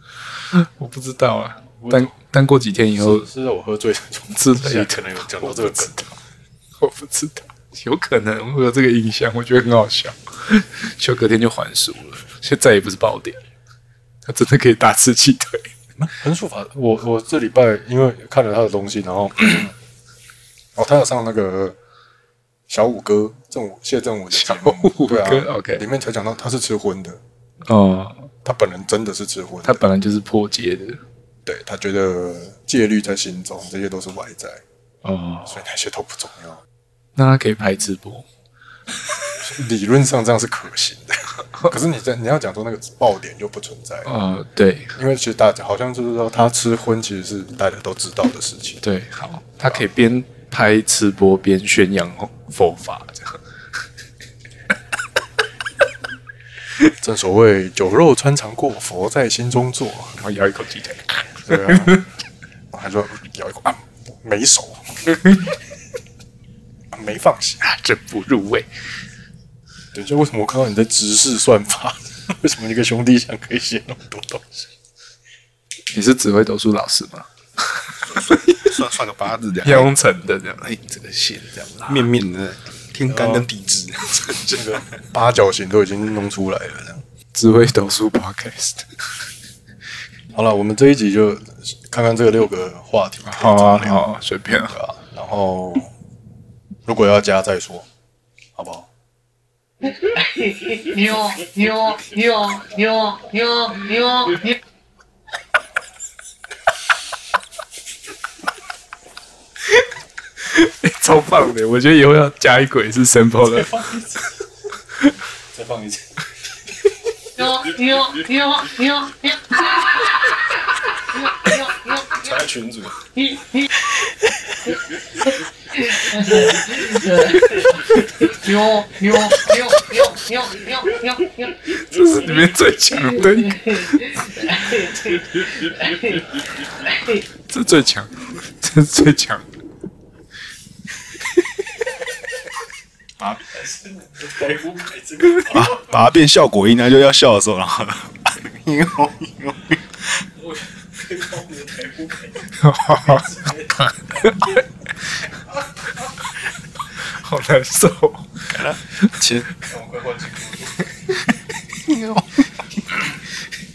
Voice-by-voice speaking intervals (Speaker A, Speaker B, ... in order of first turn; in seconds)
Speaker A: 0.5-3.3, 4.3-6.0, 6.8-13.4, 14.2-15.7, 24.3-25.8, 27.6-28.3, 29.6-31.0, 35.0-35.6, 37.2-38.3, 44.1-45.0, 48.8-53.4, 60.2-62.0, 65.1-65.5, 67.6-68.7, 75.9-77.3, 78.1-78.5, 79.6-82.1, 84.2-84.6, 87.3-88.9, 93.3-94.8, 110.4-113.7, 129.4-129.6, 131.6-134.2, 137.5-139.4, 152.6-153.3, 157.0-158.5
Speaker B: 1.8-2.1, 3.0-6.2, 16.0-19.7, 20.8-21.8, 22.7-27.2, 28.4-29.8, 31.5-34.6, 35.5-36.6, 39.4-44.1, 45.0-48.8, 57.0-60.2, 61.4-62.0, 62.7-65.0, 66.9-67.7, 69.9-74.7, 83.1-83.5, 84.5-87.0, 90.3-95.9, 96.8-97.9, 98.5-98.9, 113.4-114.3, 115.5-116.1, 117.4-118.5, 122.1-123.0, 143.6-145.8, 150.4-154.3, 159.3-160.8
Speaker C: 78.5-79.9, 81.9-84.4, 145.5-149.8
Speaker D: 101.0-101.8, 103.0-104.4, 117.8-118.8